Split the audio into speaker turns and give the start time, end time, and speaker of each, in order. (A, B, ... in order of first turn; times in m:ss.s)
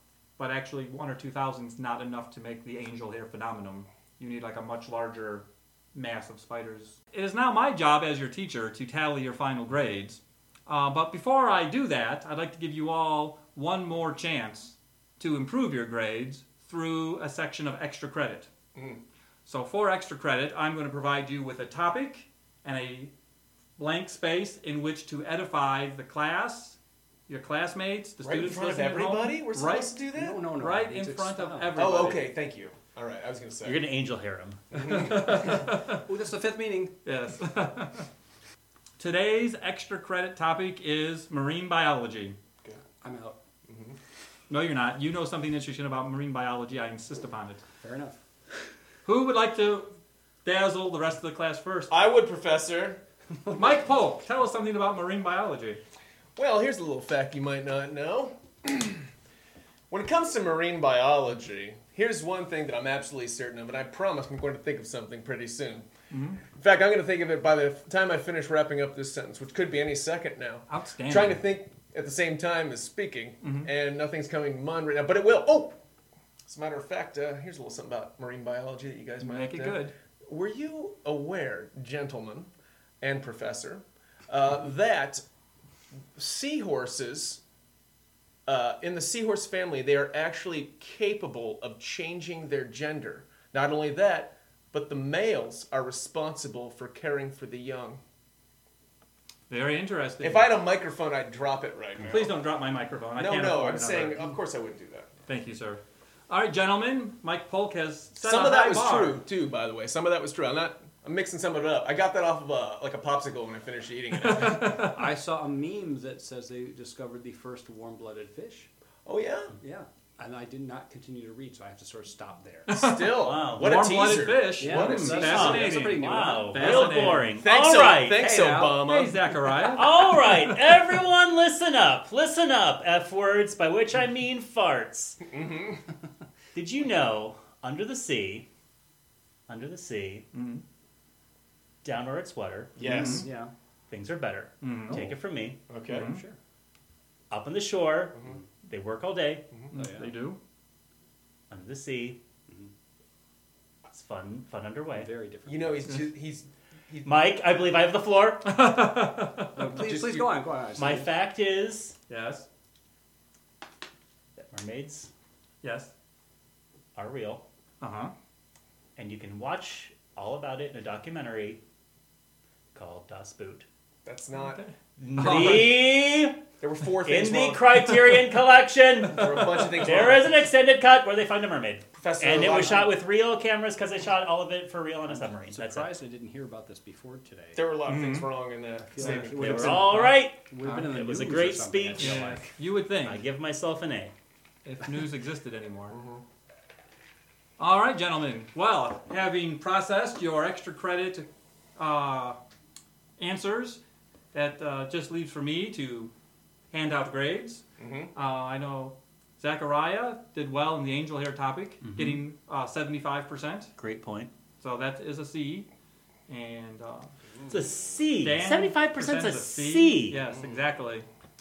0:00.4-0:18.5 A
0:18.8-0:19.0 B
0:19.4-0:23.1 A
0:23.8-0:26.8 A
0:27.3-0:29.9 A
0:28.2-0:30.4 B
0:30.1-0:31.8 C
0:30.5-0:32.3 A
0:31.8-0:33.8 B
0:33.6-0:34.6 D
0:34.7-0:35.5 B
0:34.8-0:36.0 A
0:35.3-0:36.9 C
0:37.0-0:38.1 A
0:39.0-0:42.4 A
0:43.0-0:43.4 C
0:43.7-0:44.0 B
0:44.5-0:47.6 A
0:47.8-0:48.2 C
0:49.0-0:49.9 A
0:50.4-0:51.9 A
0:51.9-0:53.0 B
0:53.5-0:55.8 A
0:56.4-0:59.1 B
0:59.9-1:05.9 B
1:06.1-1:06.4 A
1:06.5-1:15.8 B
1:10.7-1:11.4 A
1:13.4-1:13.7 A
1:16.4-1:22.5 B
1:19.2-1:19.9 A
1:23.0-1:25.2 B
1:26.1-1:27.4 B
1:28.4-1:38.0 B
1:39.5-1:40.5 A
1:40.2-1:42.4 B
1:42.1-1:44.2 A
1:43.2-1:45.1 B
1:45.3-1:49.2 A
1:48.2-1:54.9 B
1:54.2-1:55.0 A
1:54.6-1:58.7 C
1:59.0-1:59.5 B
1:59.6-2:02.7 C
2:02.7-2:07.4 A
2:02.7-2:05.6 B
2:03.2-2:03.9 D
2:04.6-2:06.9 C
2:05.0-2:08.2 D
2:06.6-2:09.4 B
2:08.1-2:10.7 A
2:09.7-2:15.2 D
2:15.3-2:15.8 B
2:16.5-2:18.5 D
2:19.5-2:20.3 D
2:20.3-2:20.6 A
2:21.8-2:22.8 D
2:22.8-2:23.3 B
2:22.8-2:23.2 A
2:22.9-2:23.5 C
2:23.9-2:25.6 D
2:24.6-2:25.1 A
2:25.7-2:26.1 B
2:25.9-2:26.2 A
2:25.9-2:26.4 C
2:27.3-2:29.4 D
2:28.1-2:28.4 B
2:29.7-2:30.4 A
2:29.8-2:30.1 C
2:31.5-2:32.2 D
2:33.9-2:35.1 D
2:34.9-2:35.9 C
2:35.5-2:37.3 B
2:37.0-2:38.6 D
2:38.4-2:40.3 A
2:39.5-2:41.1 C
2:40.8-2:41.9 D
2:42.1-2:42.4 A
2:44.5-2:45.1 D
2:45.6-2:45.9 A
2:46.9-2:47.4 D
2:47.8-2:48.1 A
2:49.0-2:51.6 D
2:52.7-2:53.6 D
2:54.0-2:54.6 B
2:55.0-2:56.4 D
2:55.2-2:55.8 B
2:56.6-2:58.2 B
2:57.0-3:05.9 D
2:59.0-3:00.4 B
3:02.0-3:02.9 B
3:05.1-3:07.6 C
3:07.6-3:09.9 B
3:07.9-3:08.3 A
3:08.9-3:12.5 C
3:09.0-3:12.4 D
3:09.7-3:10.9 A
3:12.0-3:13.2 A
3:13.0-3:14.1 D
3:14.6-3:16.0 A
3:15.9-3:16.2 B
3:17.6-3:22.4 A
3:23.2-3:23.8 A
3:24.3-3:26.1 A
3:26.7-3:27.6 A
3:27.8-3:28.1 B
3:28.1-3:33.7 A
3:31.8-3:32.2 D
3:33.8-3:34.3 D
3:34.6-3:35.7 A
3:36.3-3:37.1 A
3:37.5-3:40.3 D
3:38.2-3:41.1 A